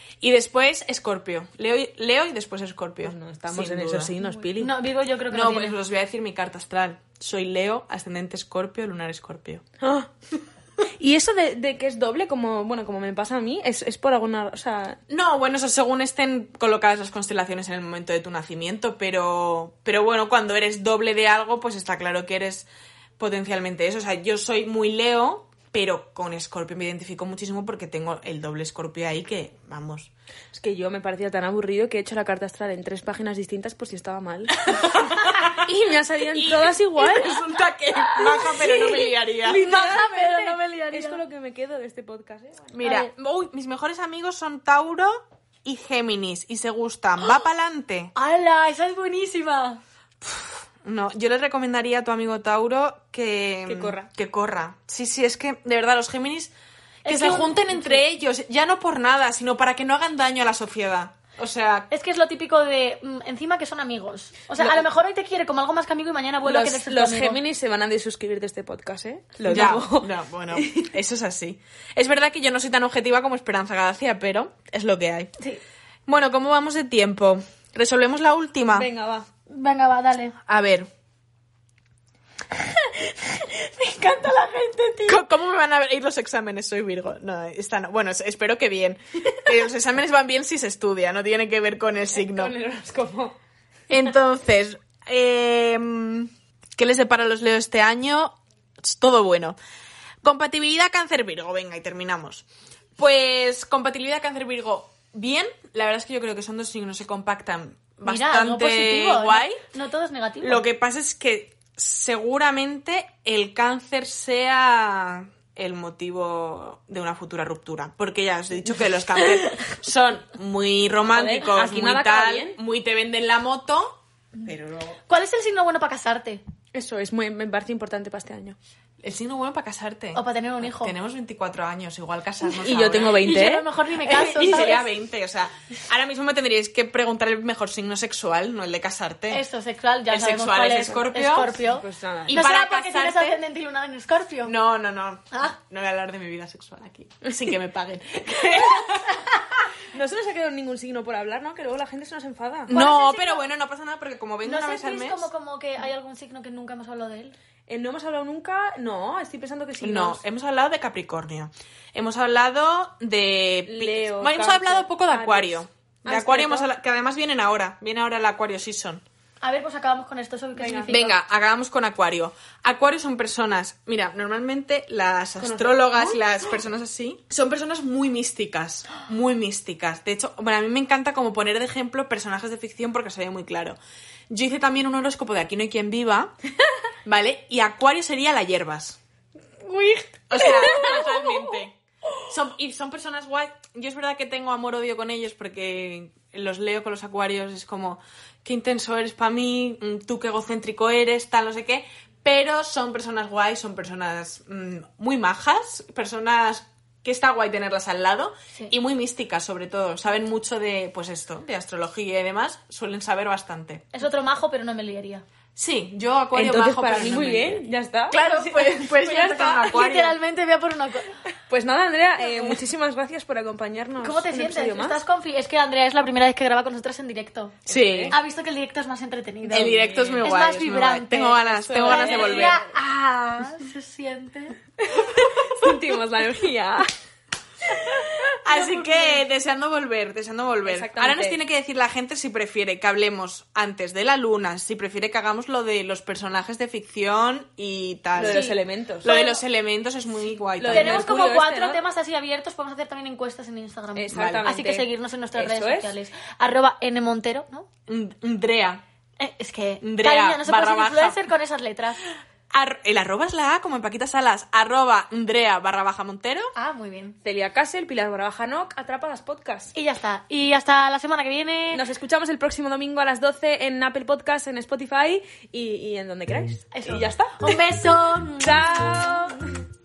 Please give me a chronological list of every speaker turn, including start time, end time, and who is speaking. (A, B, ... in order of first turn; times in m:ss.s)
0:00.2-0:04.1 A
0:03.0-0:04.7 B
0:04.5-0:05.8 C
0:05.3-0:09.6 A
0:09.8-0:10.1 B
0:11.0-0:15.0 B
0:15.1-0:22.7 A
0:23.2-0:30.1 A
0:30.5-0:34.9 B
0:34.6-0:35.7 A
0:35.4-0:37.4 B
0:36.3-0:39.6 A
0:38.4-0:39.0 C
0:39.4-0:42.7 B
0:39.5-0:41.2 C
0:42.7-0:48.1 A
0:42.8-0:43.1 C
0:48.1-0:49.8 C
0:50.2-0:56.5 A
0:53.6-0:54.1 B
0:57.0-0:58.0 C
0:57.0-1:01.9 A
1:01.9-1:07.4 C
1:06.4-1:10.9 B
1:09.4-1:15.3 A
1:16.1-1:18.9 A
1:18.7-1:19.3 B
1:19.5-1:20.4 C
1:20.5-1:20.9 A
1:22.6-1:25.2 C
1:25.1-1:32.5 A
1:32.1-1:33.4 B
1:33.9-1:39.6 A
1:40.2-1:42.4 A
1:43.0-1:49.6 A
1:48.0-1:50.6 C
1:50.4-2:05.0 A
2:01.1-2:02.6 B
2:05.1-2:06.4 C
2:06.7-2:08.6 B
2:09.0-2:13.3 A
2:10.1-2:10.9 C
2:12.4-2:13.6 B
2:13.2-2:14.9 C
2:14.0-2:19.4 A
2:19.3-2:24.5 C
2:20.1-2:21.6 A
2:21.7-2:22.4 B
2:22.3-2:23.4 A
2:24.4-2:29.4 A
2:28.6-2:28.9 B
2:29.9-2:32.7 B
2:32.7-2:33.4 C
2:32.7-2:35.3 A
2:34.4-2:37.3 C
2:37.7-2:40.2 B
2:39.8-2:49.0 A
2:43.7-2:46.7 B
2:49.4-2:51.0 C
2:50.6-2:51.1 B
2:50.9-3:03.8 A
2:55.4-2:56.4 B
3:04.3-3:06.4 A
3:07.0-3:09.0 A
3:09.6-3:11.5 B
3:10.3-3:33.9 A
3:33.9-3:35.2 C
3:35.6-3:40.2 A
3:36.3-3:39.5 B
3:38.1-3:41.2 C
3:41.5-3:45.0 B
3:44.0-3:47.6 C
3:47.6-3:48.2 B
3:47.7-3:48.2 A
3:48.1-3:54.6 C
3:49.5-3:52.7 A
3:49.8-3:50.2 B
3:51.6-3:52.7 B
3:54.8-3:56.9 B
3:55.1-3:55.8 A
3:57.6-3:58.0 B
3:58.4-4:08.5 A
3:58.5-3:59.2 C
4:00.6-4:01.4 B
4:08.1-4:09.1 B
4:08.2-4:09.4 C
4:09.0-4:11.1 A
4:10.6-4:11.8 B
4:10.7-4:17.7 C
4:14.0-4:15.9 B
4:14.1-4:14.5 A
4:17.9-4:18.8 A
4:19.2-4:22.0 C
4:19.8-4:21.2 A
4:22.5-4:26.5 A
4:26.5-4:27.2 C
4:27.2-4:29.7 B
4:29.7-4:31.8 C
4:31.7-4:37.6 B
4:36.7-4:38.6 C
4:38.4-4:39.4 B